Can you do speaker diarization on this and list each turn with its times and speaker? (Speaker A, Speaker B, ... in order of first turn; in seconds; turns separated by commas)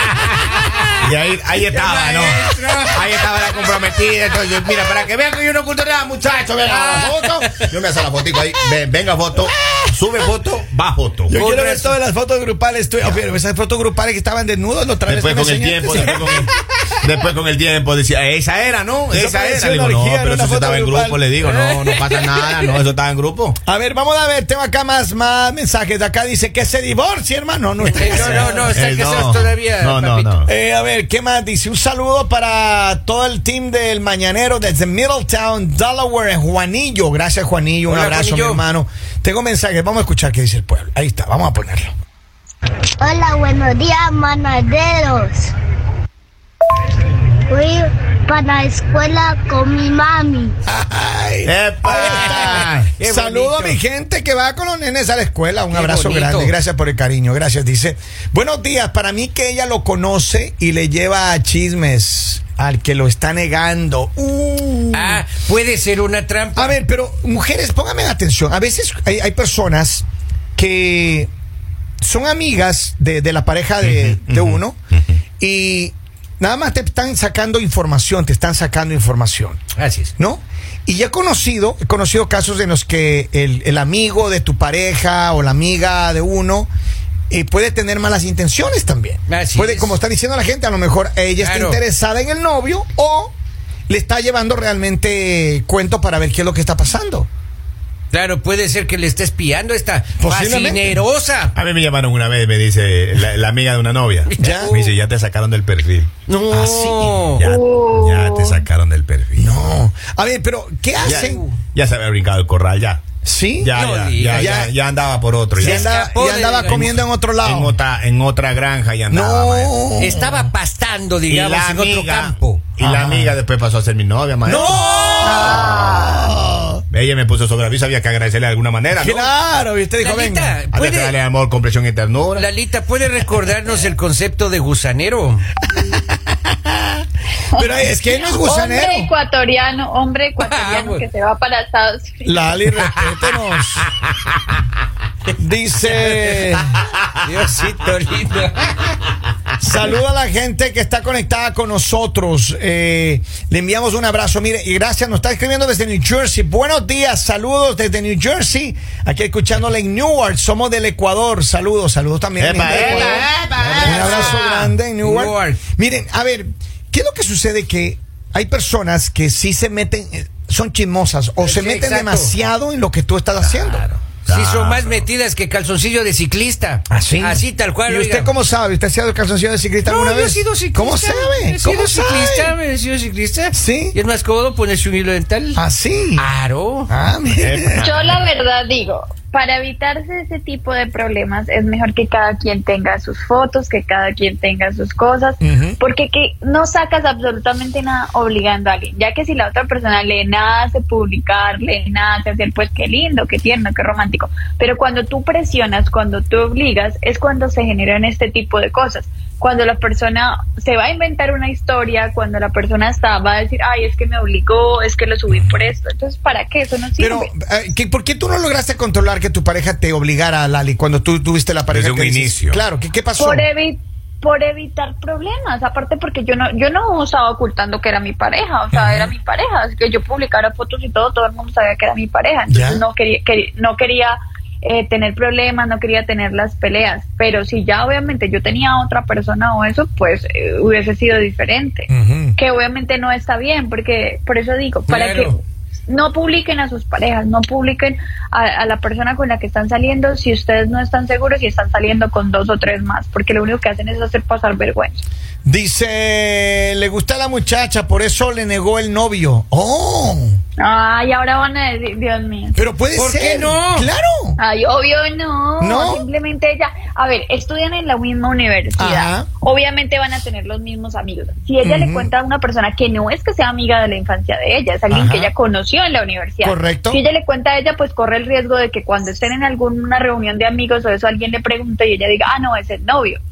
Speaker A: 0.6-0.9, Speaker B: 1.0-11.3, Speaker A: 1.7-3.0, Speaker A: 6.7-7.7, Speaker C: 11.3-16.5, Speaker A: 11.3-12.0, Speaker B: 15.1-23.6, Speaker A: 15.9-16.4, Speaker C: 19.1-21.3, Speaker A: 21.4-22.7, Speaker C: 23.6-28.8, Speaker A: 27.9-30.4, Speaker B: 28.1-30.5, Speaker C: 30.4-41.9, Speaker A: 37.9-38.6, Speaker D: 43.0-45.5, Speaker D: 47.5-50.6, Speaker C: 50.6-65.2, Speaker B: 51.4-52.9, Speaker A: 51.9-53.8, Speaker A: 55.7-56.5, Speaker A: 64.9-66.8, Speaker C: 66.5-71.3, Speaker C: 72.0-74.8, Speaker B: 73.8-74.6, Speaker C: 75.4-79.6, Speaker A: 79.8-80.1, Speaker C: 80.2-86.7, Speaker C: 87.3-93.3, Speaker A: 89.3-89.9, Speaker A: 91.4-91.8, Speaker C: 93.9-97.3, Speaker A: 98.1-101.5, Speaker C: 100.2-101.0, Speaker B: 101.5-106.1, Speaker A: 104.3-104.9, Speaker C: 104.4-104.8, Speaker A: 106.3-107.4, Speaker C: 106.5-107.2, Speaker B: 107.2-109.7, Speaker E: 107.4-108.6, Speaker C: 109.4-111.4, Speaker B: 111.0-113.0, Speaker A: 111.0-111.6, Speaker C: 113.2-113.7, Speaker B: 113.6-115.8, Speaker A: 113.7-114.6, Speaker C: 114.3-114.7, Speaker C: 115.5-117.8, Speaker A: 115.6-116.9, Speaker B: 116.6-119.7, Speaker C: 119.1-120.5, Speaker A: 120.0-122.7, Speaker B: 121.3-125.9, Speaker C: 122.8-123.4, Speaker C: 124.5-126.8, Speaker A: 124.5-125.7, Speaker E: 125.2-126.4, Speaker B: 126.9-129.3, Speaker C: 128.9-130.6, Speaker A: 130.0-131.2, Speaker B: 130.7-132.5, Speaker A: 132.3-135.4, Speaker C: 137.5-139.1, Speaker E: 138.3-142.4, Speaker A: 140.4-141.0, Speaker C: 142.2-143.8, Speaker A: 142.8-143.1, Speaker C: 145.3-146.8, Speaker A: 145.8-148.7, Speaker C: 149.6-173.8, Speaker B: 162.4-164.7, Speaker A: 163.6-164.4, Speaker A: 165.0-165.6, Speaker A: 171.4-172.3, Speaker B: 173.4-175.1, Speaker A: 174.3-178.3, Speaker C: 176.9-182.6, Speaker A: 179.8-185.6, Speaker C: 183.5-184.0, Speaker C: 185.6-186.3, Speaker A: 186.2-186.9, Speaker C: 186.9-187.9, Speaker B: 187.3-188.2, Speaker E: 187.7-217.3, Speaker C: 195.4-195.8, Speaker C: 215.3-215.7, Speaker C: 217.0-223.5, Speaker B: 221.7-222.6, Speaker E: 223.2-255.0, Speaker C: 228.7-229.1, Speaker C: 232.5-232.8, Speaker C: 241.9-242.4, Speaker A: 244.9-245.3, Speaker C: 255.4-260.4, Speaker E: 260.6-262.6, Speaker C: 262.5-264.4, Speaker A: 262.9-263.9, Speaker E: 264.4-283.2, Speaker C: 265.6-266.1, Speaker C: 268.8-269.3, Speaker C: 271.6-272.1, Speaker C: 274.9-275.3, Speaker C: 276.4-277.0